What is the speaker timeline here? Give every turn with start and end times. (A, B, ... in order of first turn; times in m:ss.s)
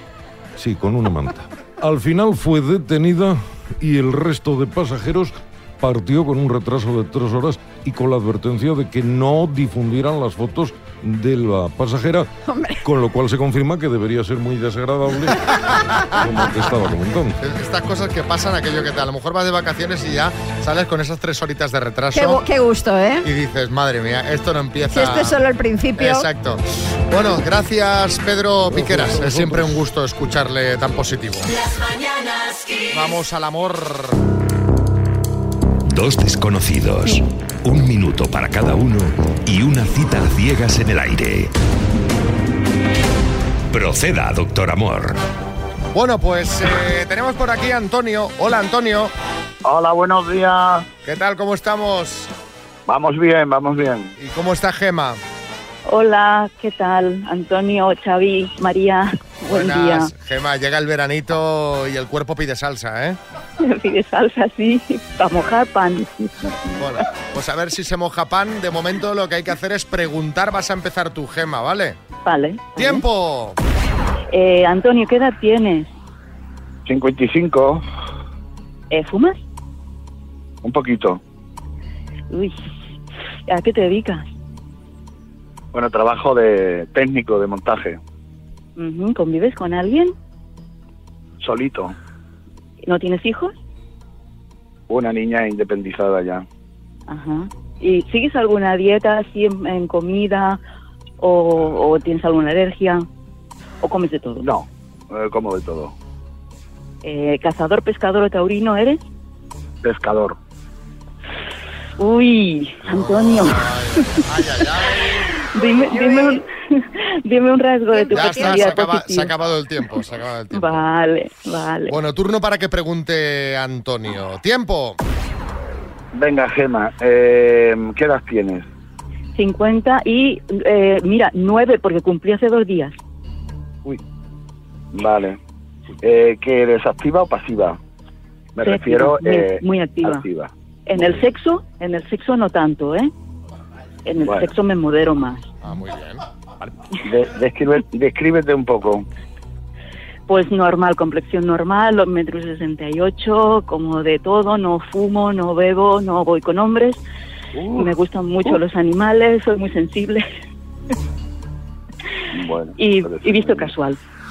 0:00.6-0:12.3 A
0:12.5-0:12.8 B
0:12.8-0:15.5 A
0:16.2-0:17.4 A
0:17.4-0:22.4 C
0:22.1-0:23.3 B
0:23.2-0:25.4 C
0:24.9-0:26.3 B
0:26.0-0:31.5 C
0:28.7-0:29.7 A
0:32.9-0:34.2 C
0:35.9-0:41.5 D
0:43.7-0:45.2 D
0:45.9-0:49.1 C
0:49.6-0:50.8 E
0:51.0-0:52.3 C
0:52.9-0:54.1 E
0:54.2-0:55.2 C
0:55.9-1:00.1 F
0:59.5-1:03.2 C
1:03.6-1:06.3 F
1:06.8-1:12.0 C
1:12.2-1:13.0 F
1:12.8-1:13.6 C
1:14.3-1:15.9 F
1:16.9-1:17.8 E
1:18.9-1:19.4 F
1:20.6-1:21.2 E
1:22.3-1:22.6 F
1:23.5-1:24.3 F
1:25.7-1:28.0 E
1:28.8-1:30.2 F
1:31.4-1:31.9 E
1:32.8-1:33.6 F
1:34.9-1:36.4 E
1:37.1-1:40.6 F
1:41.2-1:43.1 F
1:43.8-1:44.5 F
1:44.4-1:45.9 E
1:47.0-1:49.0 F
1:49.8-1:50.4 E
1:52.0-1:53.7 F
1:53.0-1:55.3 C
1:55.5-1:59.3 F
1:55.7-1:56.4 B
1:57.9-1:58.8 B
1:58.1-2:00.9 C
2:00.5-2:01.9 F
2:01.9-2:05.0 C
2:06.1-2:08.6 E
2:09.4-2:13.0 F
2:14.9-2:15.4 E
2:16.0-2:17.8 E
2:18.6-2:21.2 E
2:18.6-2:20.2 F
2:20.9-2:23.1 F
2:24.1-2:25.5 F
2:24.2-2:24.5 E
2:25.6-2:26.2 C
2:27.0-2:29.0 E
2:30.3-2:37.0 F
2:37.6-2:37.9 E
2:37.8-2:40.3 F
2:42.3-2:43.7 E
2:42.8-2:44.0 F